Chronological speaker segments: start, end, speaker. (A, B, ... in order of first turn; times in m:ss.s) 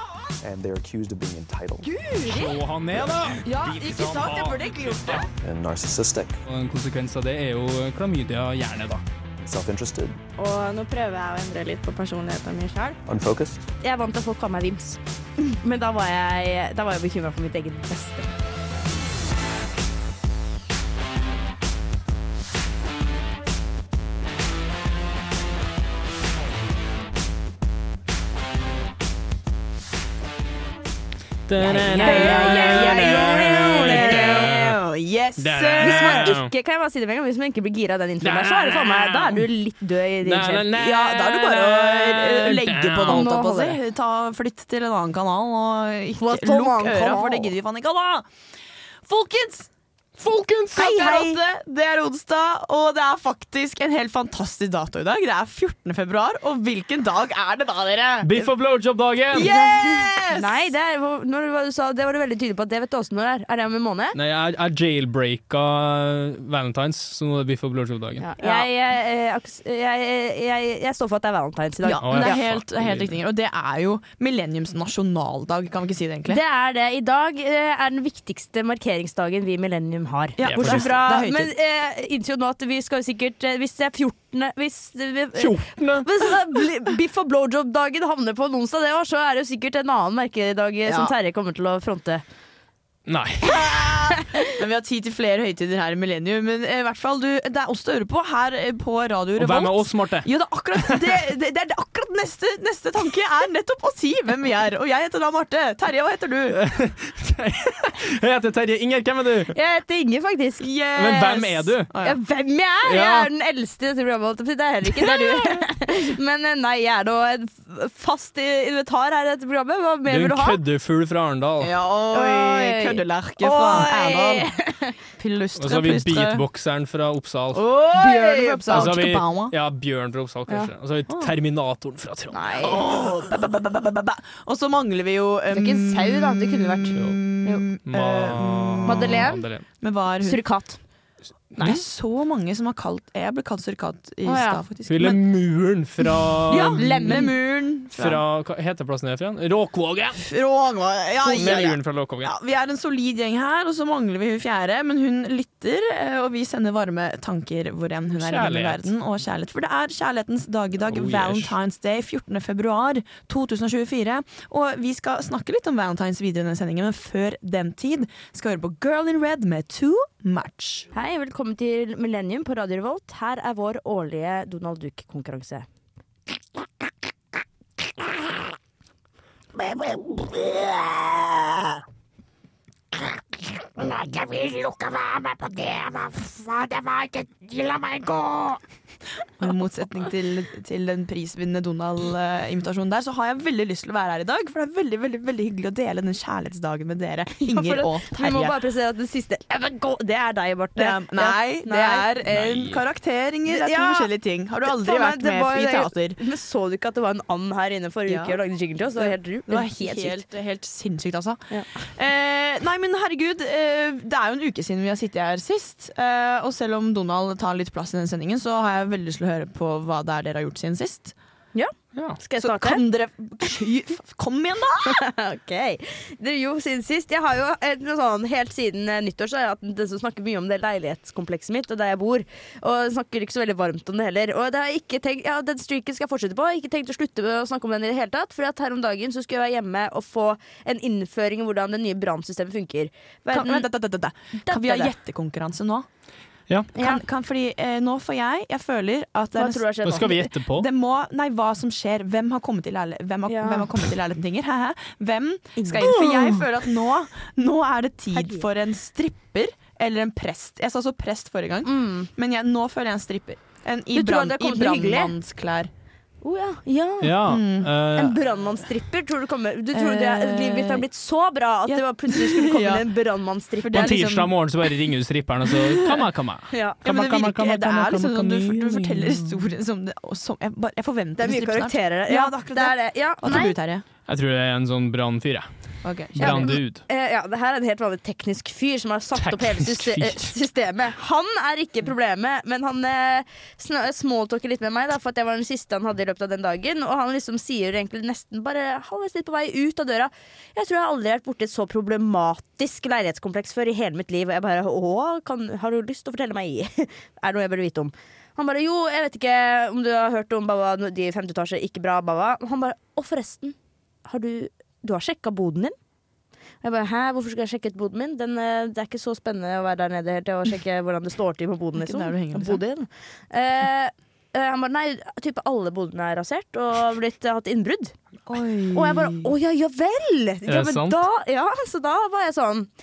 0:00.4-0:01.9 A
0:01.8-0:02.5 B
0:02.2-0:05.3 C
0:03.4-0:05.3 B
0:05.4-0:06.4 A
0:06.5-0:09.0 C
0:09.4-0:10.2 A
0:10.4-0:13.0 D
0:13.0-0:13.6 A
0:13.8-0:18.3 D
0:31.5-0:34.8 C
0:31.6-0:34.5 D
0:31.7-0:36.3 B
0:35.4-0:36.5 C
0:35.8-0:40.6 D
0:38.2-0:39.4 C
0:40.2-0:43.3 C
0:40.7-0:48.2 B
0:43.0-0:43.8 D
0:46.2-0:47.5 D
0:49.1-0:49.7 B
0:50.2-0:51.0 C
0:50.7-0:58.3 B
0:50.8-0:51.3 D
0:58.2-0:59.5 C
0:59.3-1:00.7 B
0:59.4-1:04.2 D
1:04.1-1:08.2 C
1:08.2-1:12.4 D
1:08.4-1:08.7 B
1:11.8-1:16.4 B
1:12.0-1:13.1 C
1:16.3-1:25.5 D
1:20.4-1:21.5 B
1:20.4-1:20.9 C
1:25.4-1:26.0 C
1:26.0-1:32.2 D
1:30.8-1:31.1 B
1:33.1-1:33.6 C
1:33.4-1:46.6 B
1:39.4-1:41.2 C
1:46.5-1:49.5 C
1:49.5-1:50.7 D
1:50.6-1:52.2 B
1:51.0-1:51.9 C
1:52.0-2:00.6 D
1:52.8-1:53.3 C
2:00.1-2:01.7 C
2:01.6-2:04.5 B
2:02.1-2:04.9 D
2:05.2-2:06.4 B
2:05.6-2:07.6 C
2:07.5-2:09.5 B
2:08.0-2:08.9 D
2:08.7-2:12.6 C
2:12.3-2:12.9 D
2:12.6-2:19.3 B
2:15.5-2:17.6 D
2:17.8-2:19.6 C
2:18.8-2:19.4 D
2:19.8-2:20.4 B
2:20.2-2:20.8 D
2:21.6-2:25.2 B
2:24.2-2:24.6 D
2:24.9-2:27.3 C
2:26.0-2:28.2 B
2:26.5-2:27.3 D
2:27.9-2:30.2 C
2:30.2-2:50.9 B
2:31.2-2:31.7 D
2:31.3-2:32.3 C
2:38.2-2:38.8 C
2:40.9-2:41.5 C
2:50.9-2:55.6 D
3:00.3-3:00.7 D
3:03.8-3:08.6 D
3:09.4-3:18.6 B
3:17.4-3:22.1 D
3:20.8-3:26.2 B
3:22.3-3:22.8 C
3:23.5-3:24.1 D
3:24.6-3:30.2 D
3:28.1-3:28.4 B
3:29.0-3:41.1 B
3:41.5-3:42.8 D
3:42.4-3:45.0 B
3:44.8-4:03.7 D
4:03.3-4:05.9 B
4:04.4-4:04.9 D
4:06.7-4:07.0 D
4:06.7-4:25.7 B
4:09.3-4:10.1 D
4:09.8-4:10.7 C
4:13.3-4:13.6 D
4:15.6-4:16.4 D
4:18.1-4:18.5 D
4:21.6-4:22.1 D
4:23.9-4:25.1 D
4:26.2-4:27.2 D
4:27.0-4:28.2 C
4:27.2-4:27.7 B
4:27.9-4:34.0 D
4:29.7-4:30.8 B
4:31.7-4:32.9 B
4:33.6-4:34.4 B
4:33.7-4:39.4 C
4:35.5-4:36.0 B
4:36.5-4:36.8 D
4:36.8-4:43.8 B
4:41.2-4:43.6 D
4:44.1-4:45.5 C
4:45.8-4:46.6 B
4:46.2-4:46.8 C
4:46.2-5:15.7 D
4:49.1-4:50.3 C
5:16.6-5:27.9 D
5:21.8-5:22.6 B
5:28.2-5:29.3 B
5:28.7-5:32.7 D
5:30.4-5:31.0 C